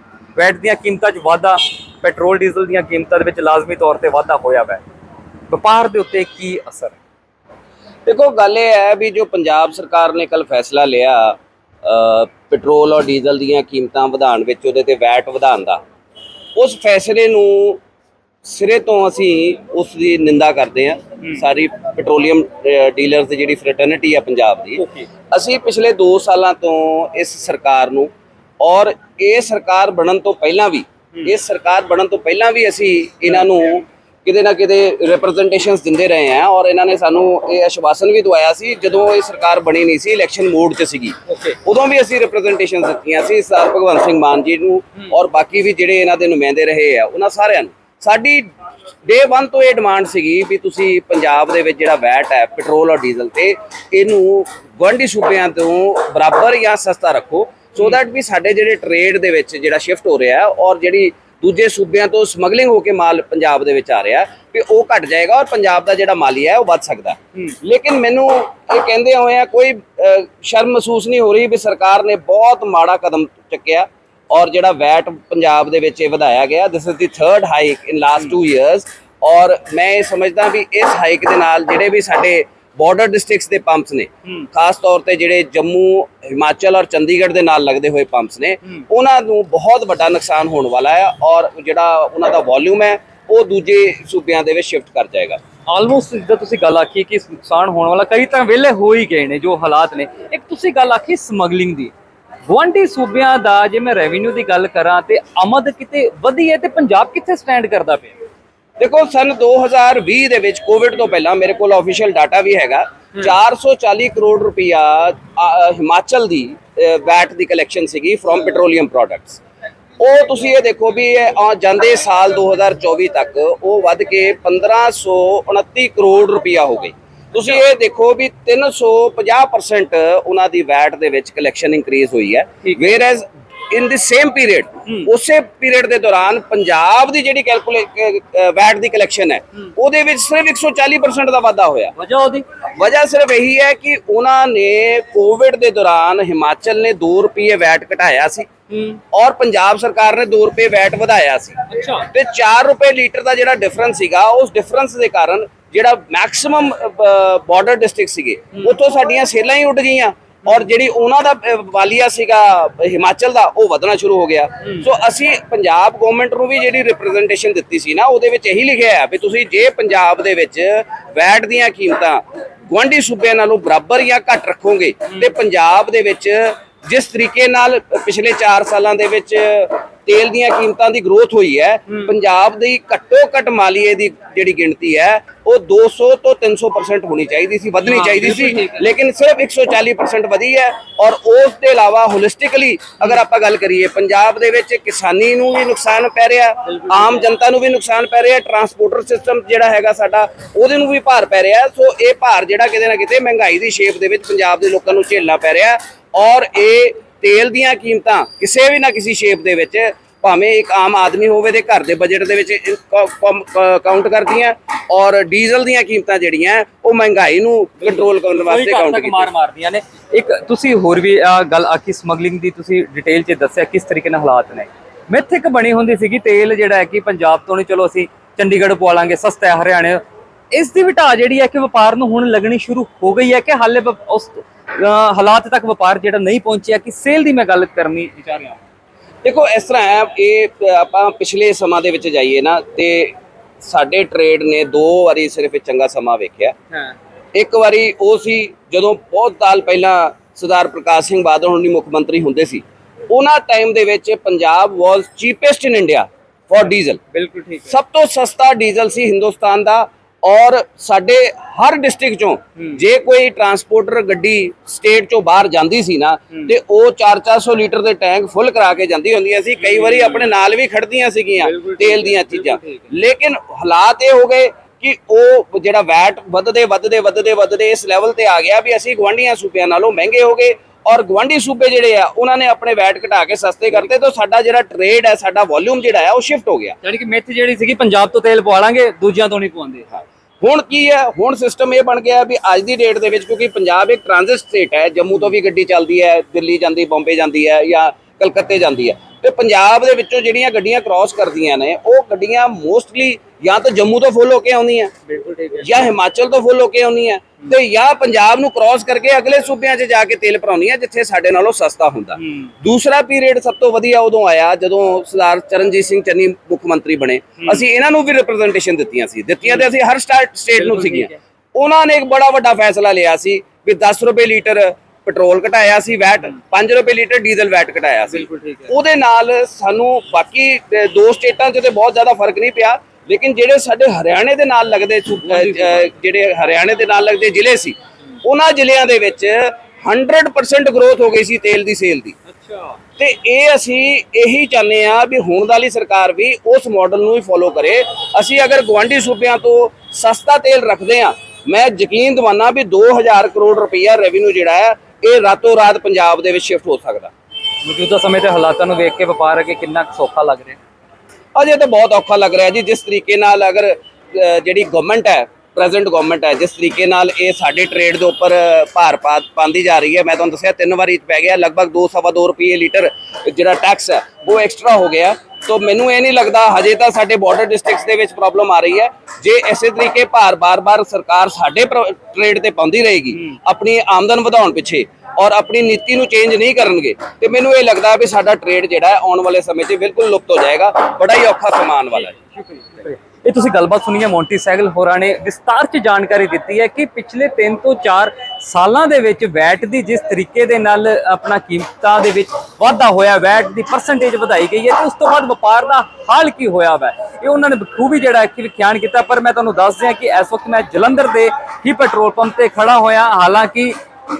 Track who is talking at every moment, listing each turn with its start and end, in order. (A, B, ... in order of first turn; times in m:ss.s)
0:00.4-0:04.8 A
0:05.5-0:07.0 A
0:08.0-0:15.8 B
0:16.6-0:17.8 B
0:18.4-0:28.1 B
0:24.8-0:25.1 A
0:28.6-0:48.5 B
0:49.0-1:35.4 B
1:35.7-1:41.9 A
1:42.5-1:48.1 A
1:48.8-1:59.4 B
2:00.0-2:21.9 B
2:22.0-2:22.4 A
2:22.8-2:28.5 B
2:28.7-2:29.0 A
2:29.1-3:39.3 B
2:31.7-2:32.1 A
3:07.8-3:08.9 A
3:16.7-3:17.1 A
3:38.4-3:50.0 A
3:50.5-3:58.6 A
3:59.2-4:06.6 B
4:07.3-4:17.0 B
4:17.1-4:17.8 A
4:17.7-4:46.8 B
4:29.7-4:30.2 A
4:31.4-4:32.7 A
4:46.8-4:49.8 A
4:50.4-5:05.0 B
5:05.1-5:05.7 A
5:05.6-5:42.2 B
5:12.2-5:12.5 A
5:20.6-5:21.2 A
5:28.3-5:28.6 A
5:35.3-5:35.8 A
5:42.3-5:42.8 A
5:43.0-5:57.1 B
5:57.6-6:00.6 A
6:01.3-6:32.2 B
6:32.4-6:53.7 A